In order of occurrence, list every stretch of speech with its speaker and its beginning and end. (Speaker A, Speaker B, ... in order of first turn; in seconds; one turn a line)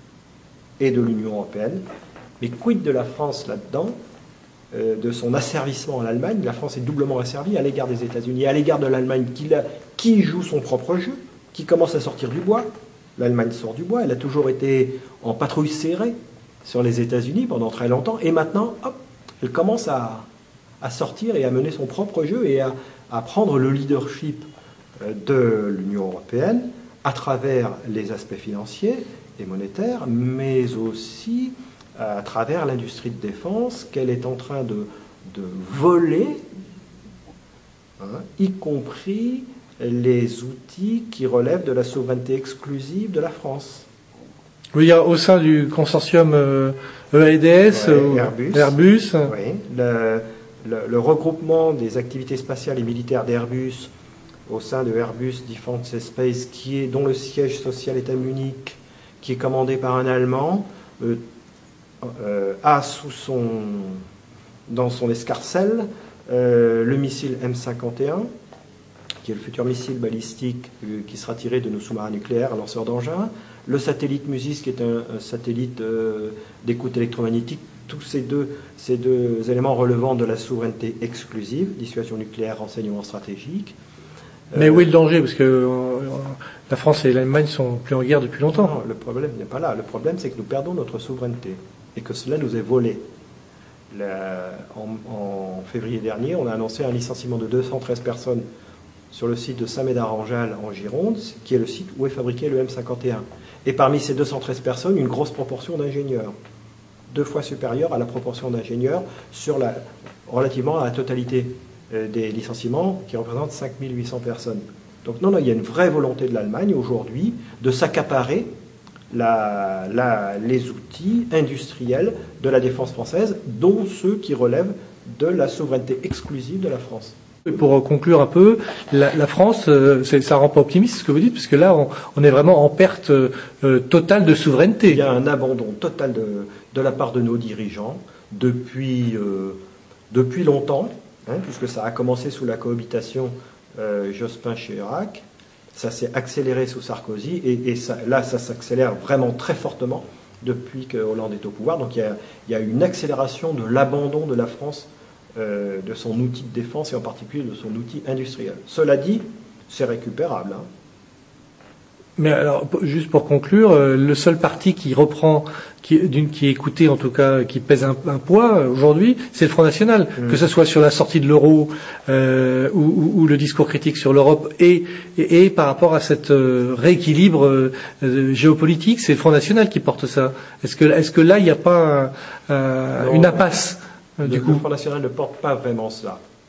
Speaker A: 0.8-1.8
Speaker A: 2.4-4.0
Speaker A: 4.7-20.2
Speaker A: 20.8-24.4
Speaker A: 25.0-36.4
Speaker A: 38.0-43.9
Speaker B: 44.7-49.3
Speaker A: 47.7-48.7
Speaker A: 49.2-53.9
Speaker A: 54.5-61.2
Speaker A: 62.0-64.0
Speaker A: 64.7-68.3
Speaker A: 69.2-83.7
Speaker A: 84.5-84.9
Speaker B: 84.5-88.7
Speaker A: 88.5-93.0
Speaker A: 93.9-98.4
Speaker A: 99.1-106.3
Speaker A: 107.1-118.5
Speaker A: 119.1-127.2
Speaker B: 127.5-135.0
Speaker A: 134.8-139.6
Speaker A: 140.1-145.2
Speaker A: 145.7-160.7
Speaker B: 162.2-184.6
Speaker A: 170.2-170.4
Speaker A: 182.9-183.4
Speaker A: 184.2-186.2